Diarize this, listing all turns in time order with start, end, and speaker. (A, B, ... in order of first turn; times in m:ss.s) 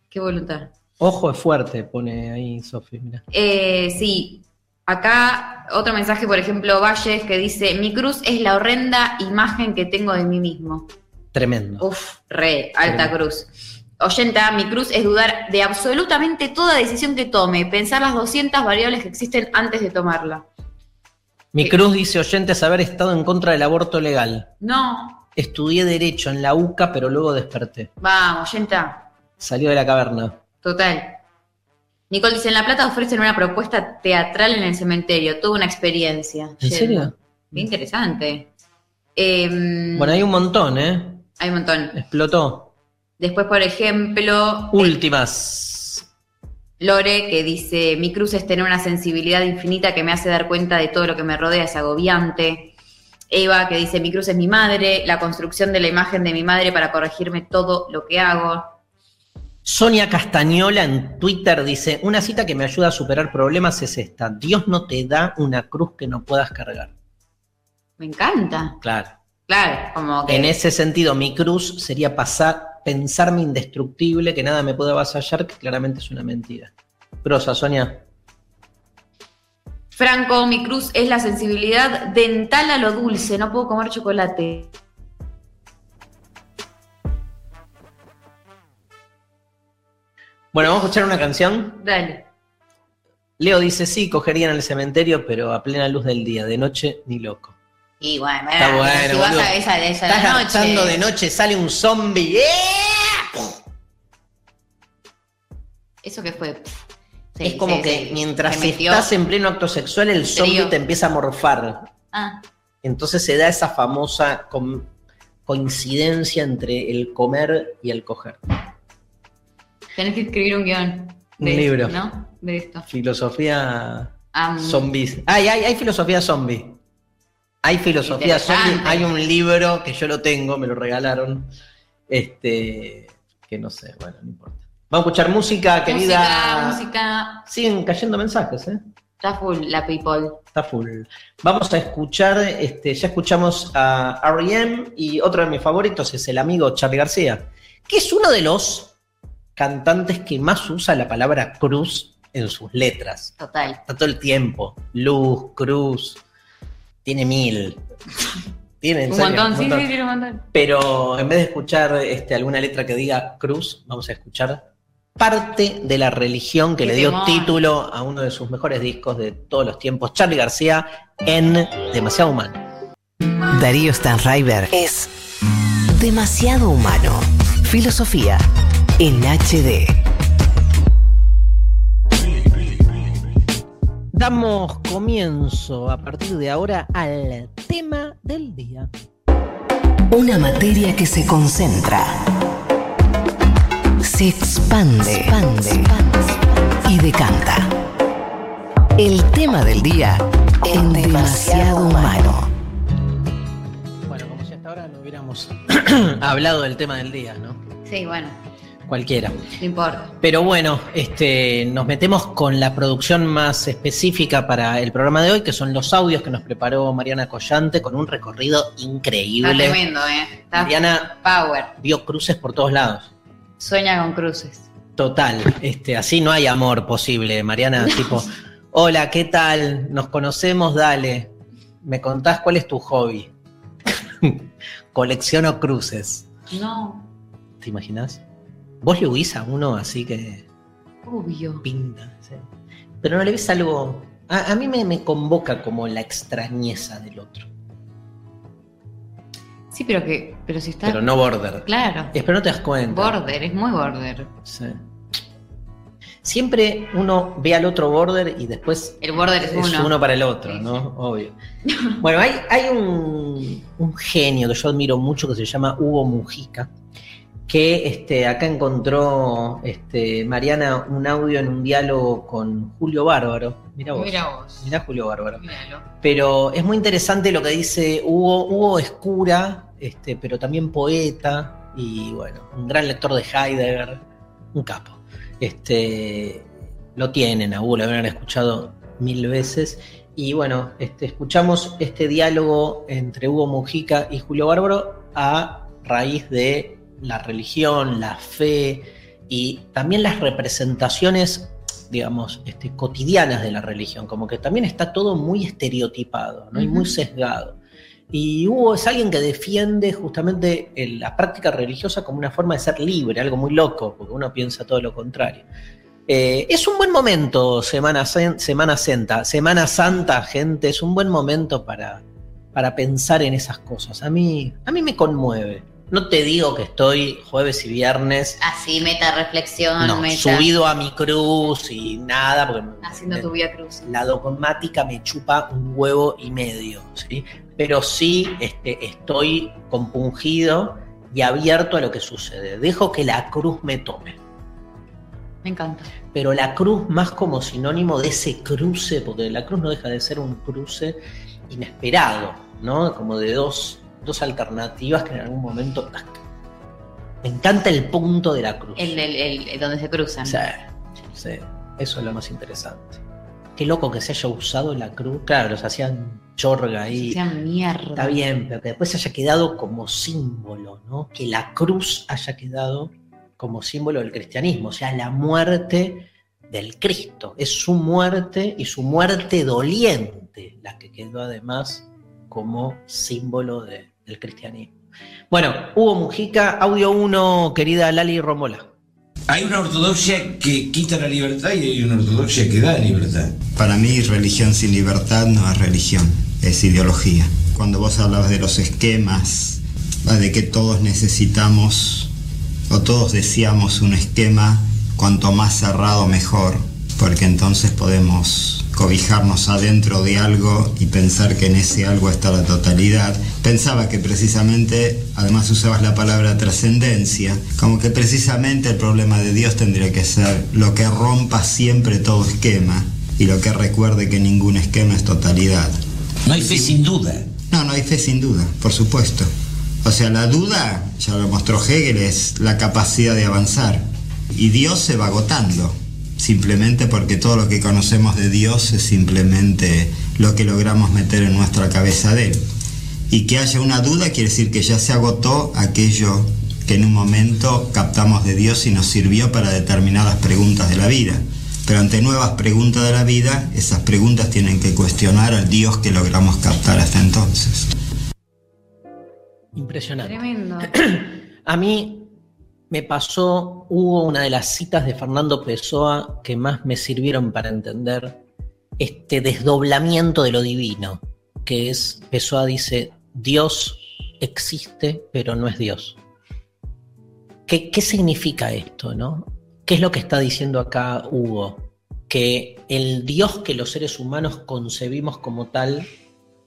0:00.1-0:00.7 A
0:01.0-0:03.2 B
0:03.3-0:10.9 A
0:11.3-0:11.9 B
0:11.8-0:20.4 A
0:12.8-0:13.1 B
0:21.5-0:24.5 B
0:24.6-0:25.2 A
0:25.4-0:27.9 B
0:28.0-0:29.0 A
0:29.4-0:30.4 B
0:30.6-0:31.2 A
0:32.1-0:38.5 A
0:36.6-0:37.6 B
0:39.2-0:40.2 A
0:39.9-0:41.2 B
0:41.4-0:41.9 A
0:41.9-0:42.7 B
0:43.2-0:45.0 A
0:44.7-0:46.0 B
0:46.8-0:52.7 A
0:53.3-0:58.8 A
0:59.6-1:06.9 B
1:08.0-1:08.8 A
1:08.8-1:09.1 B
1:09.5-1:10.6 A
1:10.2-1:16.7 B
1:17.2-1:18.0 B
1:19.9-1:24.7 A
1:30.5-1:31.8 B
1:31.8-1:32.2 A
1:33.4-1:37.6 B
1:38.0-1:41.0 A
1:38.6-1:39.5 B
1:40.1-1:43.6 B
1:46.0-1:46.8 A
1:47.4-1:49.1 A
1:47.4-1:51.9 B
1:50.3-1:50.8 A
1:52.1-1:52.4 A
1:52.8-1:54.9 B
1:55.4-1:58.4 B
2:00.0-2:02.8 A
2:01.4-2:02.0 B
2:02.9-2:06.8 B
2:04.3-2:04.9 A
2:07.6-2:11.5 B
2:08.0-2:09.1 A
2:12.1-2:16.8 B
2:15.9-2:17.4 A
2:17.4-2:18.8 B
2:19.2-2:20.4 A
2:20.6-2:28.9 B
2:29.6-2:33.3 B
2:33.4-2:33.8 A
2:33.9-2:36.2 B
2:37.0-2:37.8 B
2:38.8-2:39.9 B
2:39.1-2:40.4 A
2:40.5-2:44.6 B
2:45.2-2:52.6 B
2:46.8-2:47.6 A
2:53.5-2:55.1 C
2:55.9-2:58.4 C
2:59.0-3:00.0 C
3:04.1-3:08.9 B
3:10.1-3:12.2 C
3:14.0-3:16.3 C
3:16.8-3:17.7 C
3:19.0-3:22.5 C
3:24.0-3:27.6 B
3:27.9-3:28.4 A
3:28.9-3:29.4 B
3:29.6-3:30.1 A
3:30.2-3:39.8 B
3:39.4-3:41.7 A
3:40.5-3:41.2 B
3:41.8-3:43.1 B
3:43.6-3:44.6 A
3:45.0-3:53.3 B
3:54.2-3:56.3 B
3:56.5-3:57.1 A
3:57.6-3:58.2 B
3:58.8-4:00.4 B
4:01.0-4:01.6 A
4:01.6-4:02.4 B
4:03.0-4:07.5 B
4:09.7-4:11.0 A
4:10.8-4:13.2 B
4:11.6-4:12.1 A
4:12.9-4:14.3 A
4:14.4-4:14.8 B
4:16.2-4:21.3 B
4:19.0-4:20.7 A
4:21.7-4:21.9 A
4:22.0-4:26.7 B
4:27.5-4:35.4 B
4:33.9-4:34.8 A
4:35.4-4:35.9 A
4:36.0-4:44.0 B
4:44.5-5:07.6 B
5:06.6-5:06.9 A
5:08.1-5:15.4 B
5:16.1-5:28.4 B
5:28.4-5:30.5 A
5:29.8-5:33.3 B
5:32.8-5:33.9 A
5:33.8-5:44.2 B
5:45.4-5:45.9 A
5:46.1-5:51.0 B
5:51.5-5:56.2 B
5:57.2-5:59.0 B
5:58.8-6:00.4 A
6:00.2-6:03.0 B
6:03.6-6:07.2 B
6:06.9-6:08.2 A
6:08.0-6:24.7 B
6:25.3-6:28.7 B
6:29.3-6:33.4 D
6:33.5-6:42.1 E
6:42.7-7:05.7 E
7:06.3-7:07.3 D
7:07.5-7:09.3 E
7:09.8-7:13.8 E
7:14.3-7:22.4 E
7:23.1-7:37.6 E
7:39.6-7:42.1 B
7:40.0-7:40.8 A
7:42.7-7:48.2 B
7:48.8-7:56.0 B
7:57.5-8:05.9 B